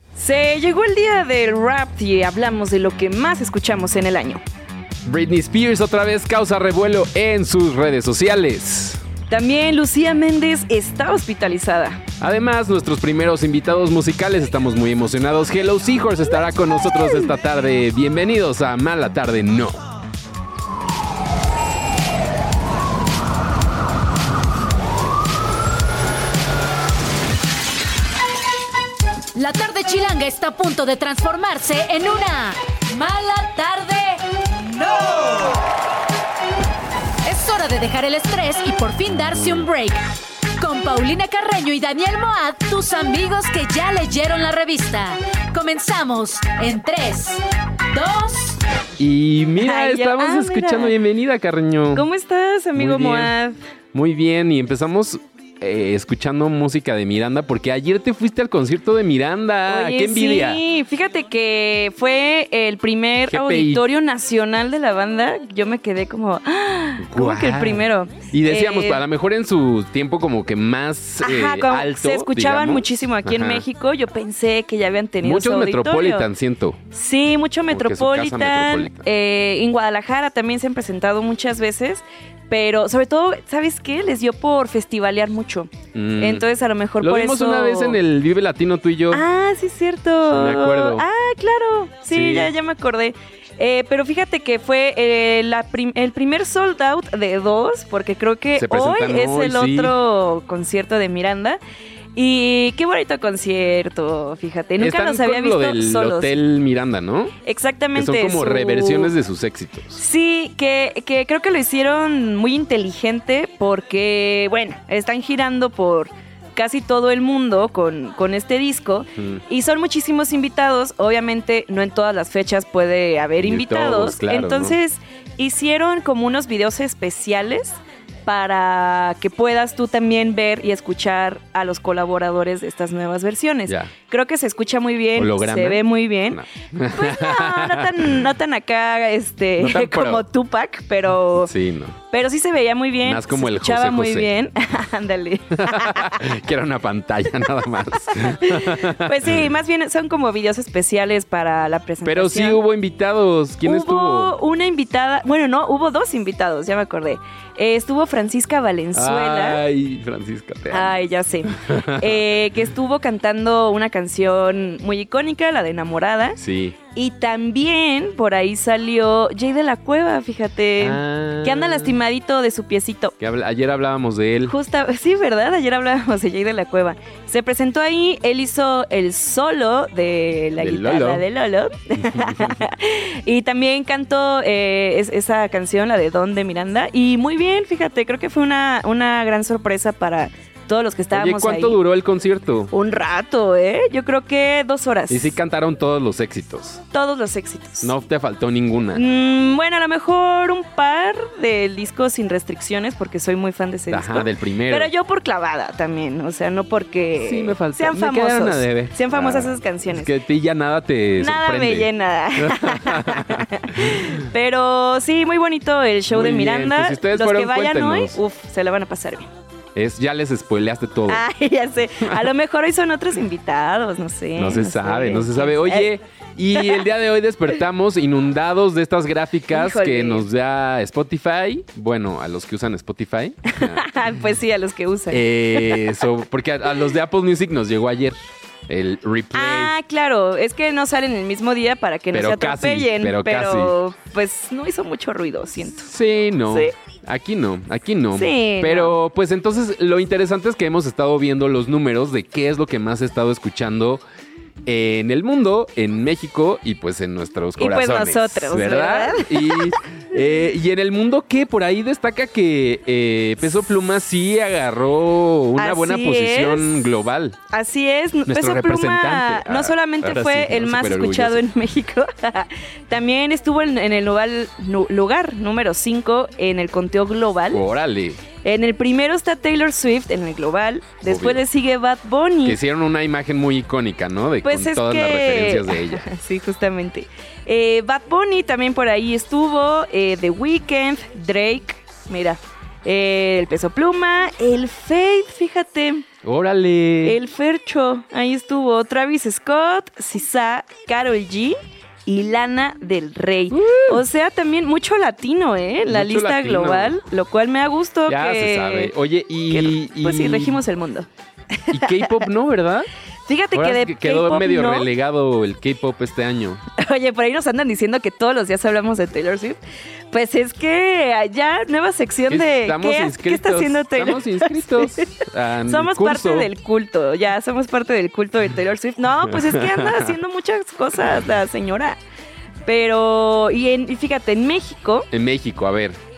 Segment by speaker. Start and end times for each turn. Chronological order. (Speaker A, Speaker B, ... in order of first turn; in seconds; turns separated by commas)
Speaker A: 0.1-4.4, Speaker B: 5.1-9.0, Speaker A: 9.3-12.0, Speaker B: 12.2-19.8, Speaker C: 29.4-35.6, Speaker C: 37.2-40.0, Speaker C: 40.6-47.4, Speaker C: 47.9-48.6, Speaker B: 49.0-52.1, Speaker A: 49.6-51.0, Speaker A: 51.9-53.6, Speaker B: 52.8-53.4, Speaker B: 53.9-60.6, Speaker A: 59.7-69.0, Speaker B: 63.3-63.8, Speaker B: 67.0-73.7, Speaker A: 71.2-76.3, Speaker B: 75.2-76.8, Speaker A: 76.9-88.0, Speaker B: 77.7-79.1, Speaker B: 85.9-86.5, Speaker B: 87.0-89.2, Speaker A: 89.1-101.6, Speaker B: 90.3-91.0, Speaker B: 92.1-92.5, Speaker B: 98.6-100.0, Speaker A: 102.2-106.4, Speaker B: 104.8-107.3, Speaker A: 107.4-109.1, Speaker B: 107.9-110.0, Speaker A: 110.0-141.5, Speaker B: 119.2-119.4, Speaker B: 123.4-124.8, Speaker B: 133.7-133.9, Speaker B: 135.2-138.2, Speaker B: 139.6-140.3, Speaker B: 141.3-142.0, Speaker A: 142.1-146.3, Speaker B: 143.0-144.3, Speaker B: 145.5-149.6, Speaker A: 148.1-152.6, Speaker B: 152.1-154.3, Speaker A: 153.6-159.6, Speaker B: 158.9-162.2, Speaker A: 160.7-166.4, Speaker B: 166.4-166.8, Speaker A: 166.9-173.2, Speaker B: 170.8-172.0, Speaker B: 173.2-174.6, Speaker A: 174.5-191.8, Speaker B: 180.6-181.2, Speaker B: 182.0-182.6, Speaker B: 191.1-192.7, Speaker A: 192.7-195.4, Speaker B: 195.1-196.8, Speaker A: 196.9-197.9, Speaker B: 197.8-199.0, Speaker A: 198.9-210.1, Speaker B: 203.9-204.9, Speaker B: 207.2-214.2, Speaker A: 211.2-219.3, Speaker B: 216.1-218.2, Speaker B: 219.8-221.2, Speaker A: 221.1-225.9, Speaker B: 222.0-222.3, Speaker B: 224.4-233.8, Speaker A: 226.6-226.8, Speaker A: 229.5-230.3, Speaker A: 233.5-236.0, Speaker B: 235.1-238.2, Speaker B: 238.7-239.7, Speaker A: 239.3-245.9, Speaker B: 242.1-243.8, Speaker B: 245.8-254.0, Speaker A: 248.1-249.0, Speaker B: 254.7-267.4, Speaker A: 257.6-259.8, Speaker A: 265.6-267.0, Speaker A: 267.5-277.6, Speaker B: 268.3-271.4, Speaker B: 277.5-278.2, Speaker A: 278.4-282.6, Speaker B: 281.0-281.4, Speaker B: 282.4-286.1, Speaker A: 284.4-296.1, Speaker B: 296.2-297.2, Speaker A: 297.0-308.9, Speaker B: 303.5-304.0, Speaker B: 305.9-307.0, Speaker B: 308.1-310.6, Speaker A: 309.5-312.2, Speaker B: 311.7-312.9, Speaker A: 313.3-314.9, Speaker B: 313.5-316.6, Speaker A: 316.8-319.6, Speaker A: 320.1-332.0, Speaker B: 322.3-326.5, Speaker B: 329.3-330.1, Speaker A: 332.7-335.1, Speaker B: 335.1-336.0